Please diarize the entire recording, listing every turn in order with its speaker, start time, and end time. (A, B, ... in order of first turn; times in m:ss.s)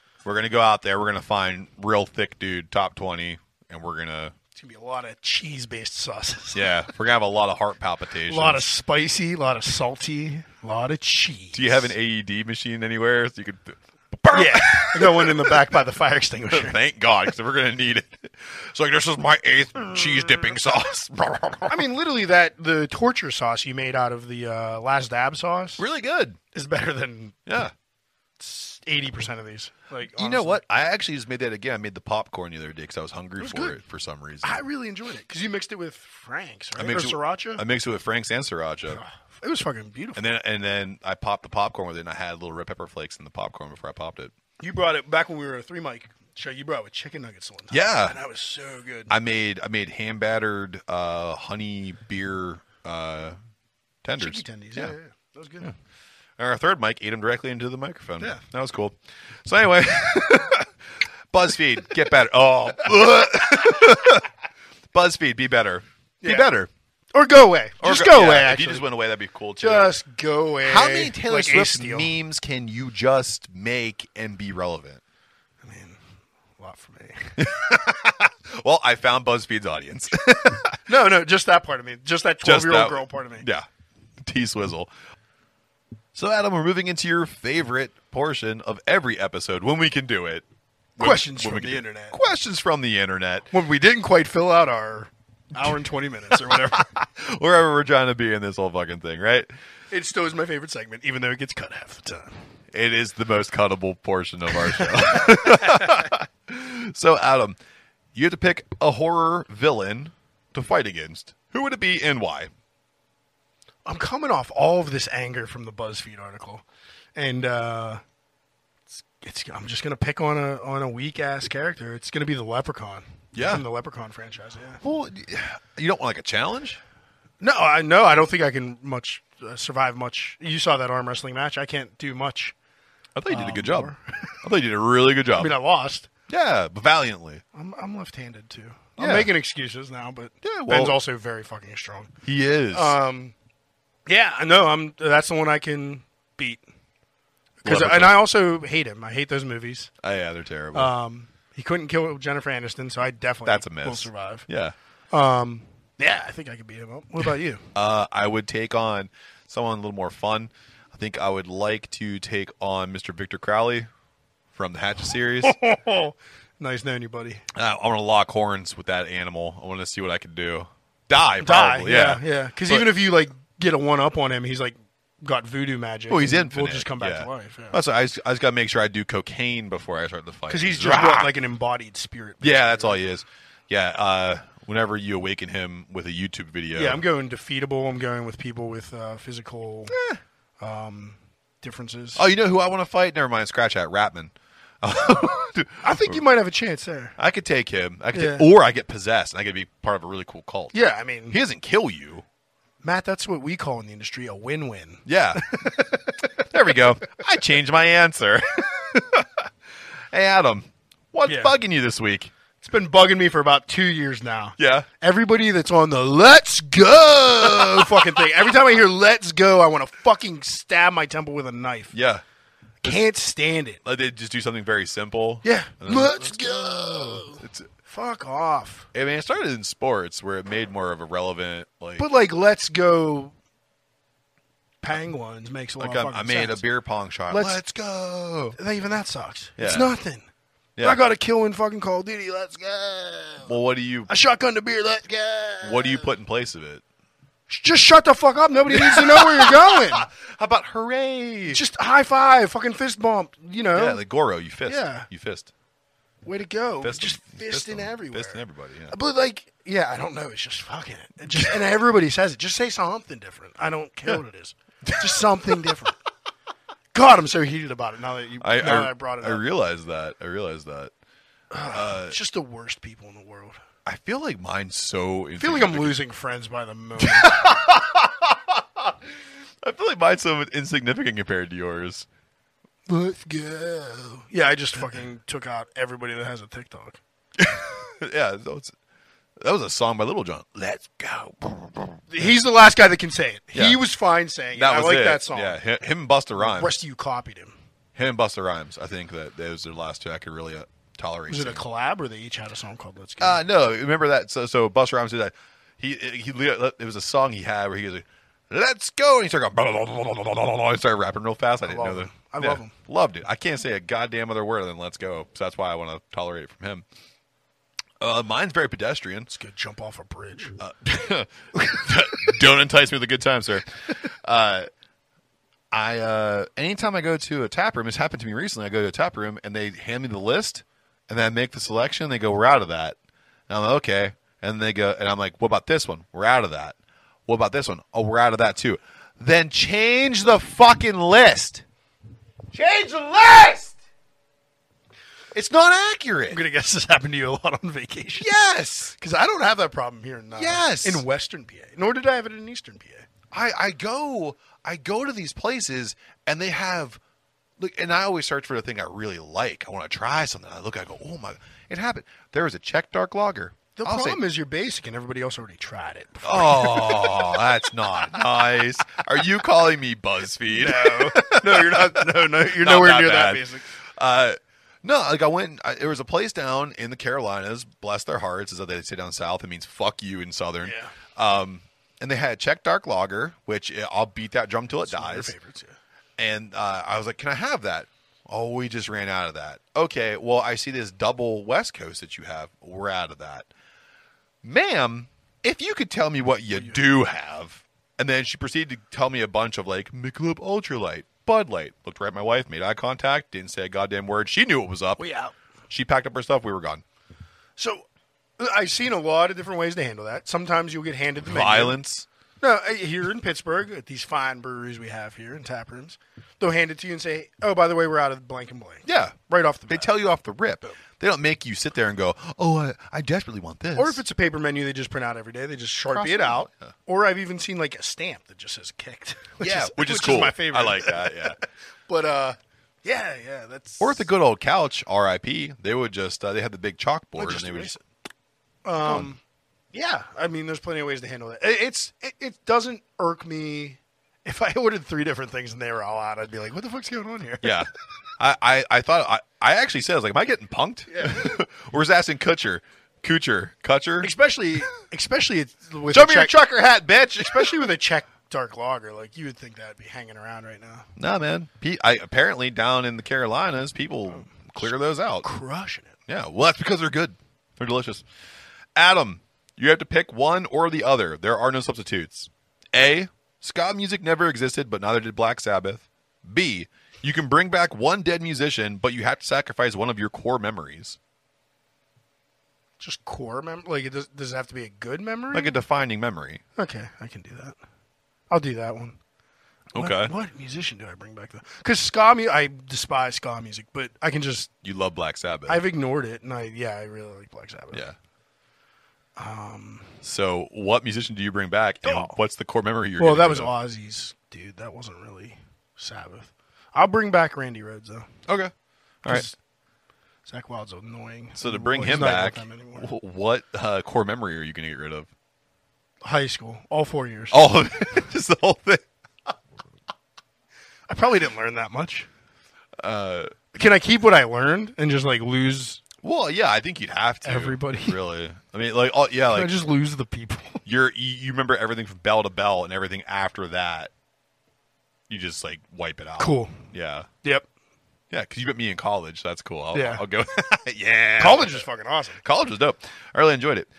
0:00.2-0:04.3 A
0:04.5-0:06.8 B
0:06.5-0:08.6 A
0:08.3-0:11.9 B
0:11.5-0:15.7 A
0:14.3-0:16.8 B
0:16.5-0:21.8 A
0:21.7-0:25.8 B
0:25.8-0:26.4 A
0:26.5-0:27.4 B
0:27.4-0:27.7 A
0:28.4-0:30.6 B
0:30.2-0:34.6 A
0:33.4-0:33.8 B
0:34.4-0:37.6 B
0:36.8-0:39.0 A
0:38.9-0:40.3 B
0:40.2-0:44.3 A
0:44.6-0:49.1 B
0:47.7-0:48.2 A
0:49.1-0:53.4 A
0:54.0-0:54.9 A
0:54.2-0:55.7 B
0:56.4-1:00.7 A
1:01.3-1:04.3 A
1:04.9-1:06.7 A
1:06.2-1:06.5 B
1:07.1-1:08.8 B
1:07.8-1:09.9 A
1:09.6-1:12.1 B
1:10.6-1:15.0 A
1:15.6-1:16.0 B
1:16.6-1:17.4 B
1:17.4-1:20.8 A
1:20.9-1:23.4 B
1:22.4-1:23.7 A
1:24.2-1:24.9 A
1:26.1-1:30.4 A
1:31.0-1:33.5 A
1:31.0-1:32.2 B
1:33.5-1:36.9 B
1:36.3-1:39.5 A
1:39.9-1:42.3 B
1:42.7-1:47.6 A
1:44.7-1:46.1 B
1:48.1-1:52.5 A
1:53.9-1:56.6 B
1:57.1-1:58.0 B
1:58.9-2:04.8 B
2:03.3-2:03.6 A
2:04.8-2:06.8 A
2:07.4-2:12.6 B
2:13.2-2:15.6 A
2:13.3-2:14.4 B
2:15.3-2:16.1 B
2:16.3-2:17.4 A
2:17.5-2:22.1 B
2:19.0-2:19.3 A
2:20.4-2:21.0 A
2:22.2-2:23.0 A
2:22.7-2:23.3 B
2:24.1-2:26.6 B
2:27.6-2:29.9 B
2:27.6-2:28.2 A
2:30.0-2:30.9 A
2:30.7-2:34.5 B
2:33.4-2:34.7 A
2:35.1-2:37.6 B
2:37.7-2:43.9 A
2:44.5-2:45.6 A
2:45.4-2:47.4 B
2:47.5-2:52.9 A
2:51.4-2:57.8 B
2:56.1-3:01.3 A
3:00.5-3:03.0 B
3:02.4-3:07.0 A
3:06.8-3:10.0 B
3:09.9-3:10.2 A
3:10.6-3:12.2 B
3:12.2-3:16.2 A
3:15.8-3:17.1 B
3:17.2-3:20.8 A
3:18.1-3:18.5 B
3:20.7-3:21.4 B
3:21.3-3:22.2 A
3:22.8-3:26.0 B
3:25.0-3:29.5 A
3:30.1-3:32.3 A
3:31.3-3:31.5 B
3:32.6-3:41.9 B
3:34.6-3:34.9 A
3:37.3-3:38.2 A
3:41.9-3:42.2 A
3:42.8-3:43.8 B
3:43.8-3:47.7 A
3:45.4-3:48.9 B
3:48.9-3:52.0 A
3:52.0-3:53.3 B
3:54.8-3:56.6 B
3:55.8-3:58.6 A
3:57.3-3:57.6 B
3:58.6-4:00.2 B
3:59.6-3:59.9 A
4:00.8-4:01.0 A
4:00.8-4:03.5 B
4:03.4-4:04.1 A
4:04.1-4:06.1 B
4:05.6-4:06.8 A
4:07.5-4:10.1 B
4:08.7-4:11.6 A
4:11.5-4:14.0 B
4:13.7-4:15.5 A
4:14.6-4:15.0 B
4:16.2-4:26.0 B
4:16.8-4:19.0 A
4:24.8-4:25.2 A
4:26.9-4:29.4 B
4:28.4-4:30.9 A
4:31.5-4:33.6 B
4:31.7-4:32.2 A
4:33.8-4:36.0 A
4:35.4-4:37.4 B
4:37.0-4:39.0 A
4:39.6-4:42.0 A
4:42.9-4:47.0 B
4:47.4-4:48.7 A
4:49.4-4:52.3 A
4:52.1-4:55.6 B
4:53.5-4:53.8 A
4:54.5-4:56.7 A
4:56.4-4:57.5 B
4:57.9-5:01.6 A
5:01.3-5:03.4 B
5:03.2-5:16.8 A
5:11.6-5:12.7 B
5:18.0-5:19.3 A
5:19.3-5:20.6 B
5:20.6-5:24.7 A
5:25.7-5:33.0 A
5:33.5-5:36.8 A
5:37.3-5:41.6 A
5:42.5-5:43.8 A
5:45.3-5:46.4 A
5:46.3-5:48.4 B
5:48.2-5:49.0 A
5:49.0-5:53.0 B
5:50.3-5:51.0 A
5:53.3-5:57.0 A
5:57.6-6:04.2 A
6:03.8-6:07.4 B
6:06.2-6:25.3 A
6:10.5-6:13.7 B
6:20.6-6:20.9 B
6:24.9-6:25.8 B
6:26.2-6:33.5 A
6:34.4-6:45.0 A
6:45.0-6:45.3 B
6:45.7-6:46.8 A
6:47.6-6:47.9 B
6:48.4-6:51.8 B
6:51.2-6:52.0 A
6:52.4-7:00.0 B
6:58.8-6:59.2 A
6:59.7-7:04.0 A
7:03.8-7:11.3 B
7:05.9-7:06.7 A
7:09.4-7:11.4 A
7:11.9-7:14.1 B
7:13.8-7:17.8 A
7:17.2-7:17.8 B
7:18.6-7:19.2 B
7:18.8-7:19.1 A
7:19.7-7:27.6 B
7:27.4-7:34.1 A
7:30.9-7:31.4 B
7:34.0-7:36.4 B
7:35.9-7:37.6 A
7:37.2-7:40.9 B
7:41.0-7:45.3 A
7:45.2-7:46.0 B
7:46.1-7:48.0 A
7:48.7-8:01.0 A
8:02.8-8:05.6 B
8:05.3-8:06.4 A
8:06.6-8:07.6 B
8:08.3-8:09.0 B
8:09.7-8:10.1 A
8:09.7-8:14.5 B
8:14.6-8:15.6 A
8:15.5-8:17.8 B
8:19.2-8:20.0 B
8:20.0-8:23.5 A
8:21.8-8:22.2 B
8:23.0-8:28.1 B
8:28.3-8:28.5 A
8:29.0-8:29.3 B
8:30.3-8:32.9 B
8:31.4-8:35.1 A
8:36.0-8:37.5 B
8:37.3-8:39.3 A
8:40.9-8:42.1 B
8:42.8-8:43.4 A
8:43.5-8:45.8 B
8:46.0-8:49.6 A
8:47.2-8:48.0 B
8:49.3-8:50.6 B
8:50.6-8:53.9 A
8:55.1-8:57.1 A
8:56.2-8:56.6 B
8:58.1-9:01.7 A
8:59.7-9:00.0 B
9:01.2-9:02.2 B
9:02.2-9:03.7 A